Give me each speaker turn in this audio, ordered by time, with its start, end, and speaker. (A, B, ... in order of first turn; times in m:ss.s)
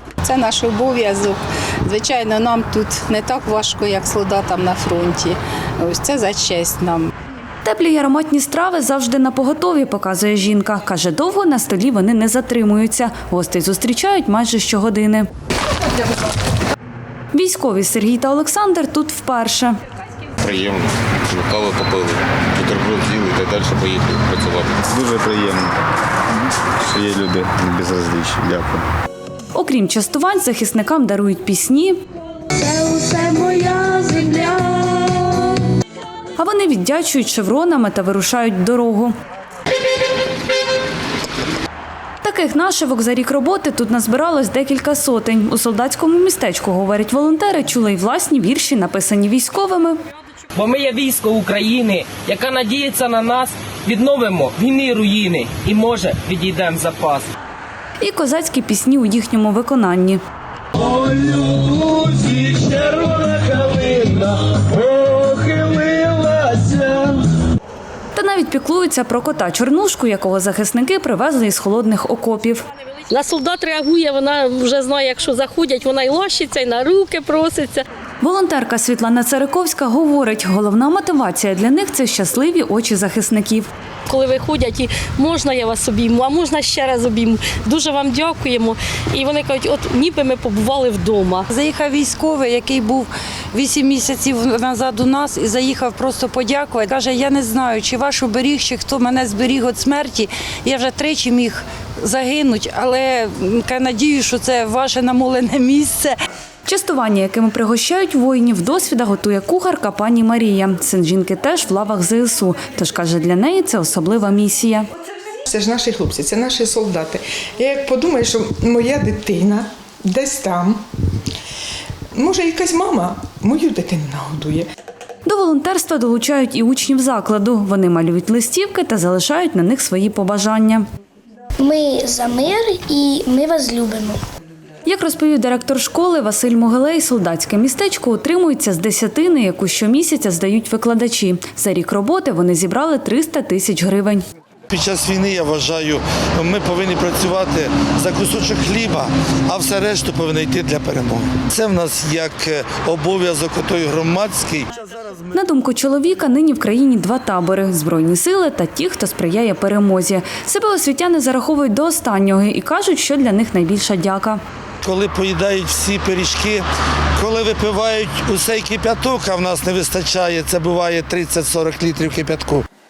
0:00.2-0:07.1 A
0:07.6-0:15.3 B
0:17.3-0:19.8 B
0:20.4-0:24.8 C
0:24.8-0:25.8 D
0:26.8-0:28.8 D
0:29.5-0:32.0 B
0:32.6-0:35.5 E
0:36.4-0:39.1 B
0:42.2-0:50.0 B
0:50.5-0:57.3 F
0:58.0-1:00.2 B
1:01.0-1:07.2 F
1:08.1-1:12.6 B
1:13.1-1:17.8 G
1:18.2-1:23.7 B
1:24.1-1:31.5 G
1:31.5-1:46.2 H
1:46.6-1:54.9 B
1:55.4-2:00.8 I
2:02.1-2:04.7 I
2:05.2-2:10.8 B
2:11.6-2:14.2 E
2:14.8-2:24.2 B
2:24.7-2:35.2 J
2:35.3-2:44.4 B
2:44.8-2:46.6 J
2:47.2-2:52.6 J